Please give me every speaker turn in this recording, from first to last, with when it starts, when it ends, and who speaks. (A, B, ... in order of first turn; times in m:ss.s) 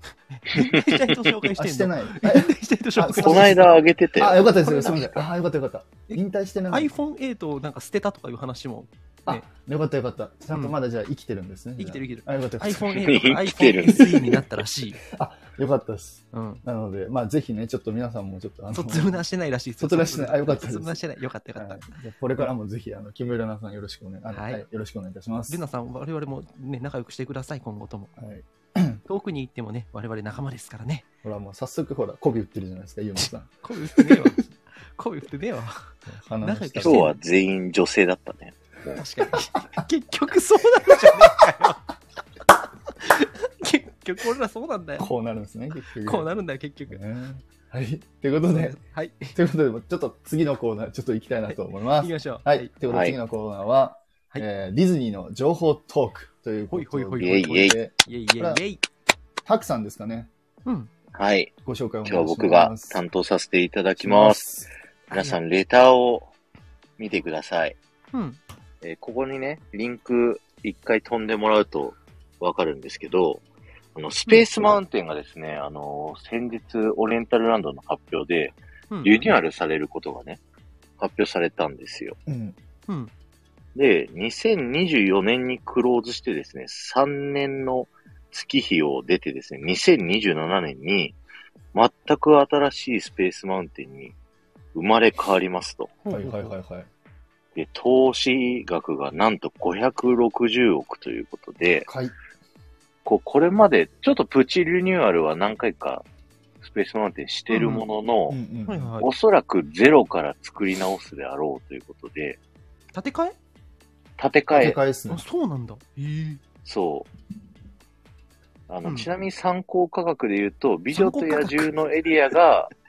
0:00.3-0:03.8 A
0:01.4-0:06.9 B
0:03.2-0:05.2 C
0:06.1-0:09.5 A
0:09.2-0:13.0 B
0:11.8-0:15.0 A
0:12.9-0:14.4 C
0:15.1-0:19.2 B
0:16.3-0:16.6 A
0:18.7-0:22.5 A
0:19.8-0:21.0 B
0:21.6-0:25.6 B
0:24.3-0:24.6 A
0:25.5-0:28.1 A
0:28.2-0:29.0 B
0:29.0-0:31.0 A
0:31.2-0:34.3 B
0:33.2-0:37.2 A
0:36.1-0:37.1 B
0:36.8-0:39.0 C
0:38.9-0:41.8 A
0:43.0-0:45.1 A
0:45.0-0:46.3 B
0:46.0-0:47.0 A
0:46.9-0:48.8 B
0:48.5-0:49.3 A
0:49.3-0:58.6 B
0:51.5-0:52.7 A
0:52.9-0:53.2 C
0:56.7-0:58.8 A
0:57.2-0:57.8 C
0:59.4-1:00.3 B
1:00.6-1:00.9 A
1:01.1-1:01.5 C
1:01.6-1:03.0 B
1:02.0-1:04.4 C
1:04.0-1:04.7 B
1:05.1-1:06.3 C
1:05.1-1:05.4 A
1:07.0-1:07.8 C
1:08.1-1:08.4 A
1:08.8-1:13.4 C
1:14.0-1:20.4 C
1:18.9-1:19.3 A
1:21.0-1:22.2 C
1:22.3-1:22.6 B
1:23.7-1:31.2 C
1:31.7-1:34.1 C
1:34.7-1:36.0 C
1:36.0-1:36.5 A
1:36.1-1:36.9 B
1:37.5-1:41.9 C
1:41.8-1:42.1 B
1:43.0-1:46.0 C
1:46.6-1:48.4 C
1:47.5-1:47.8 A
1:48.3-1:48.9 B
1:48.7-1:49.1 A
1:49.0-1:52.4 C
1:52.9-1:53.4 A
1:54.2-1:54.8 C
1:54.5-1:55.2 B
1:55.1-1:56.4 A
1:56.6-1:57.1 C
1:58.7-2:02.7 C
2:00.9-2:01.8 A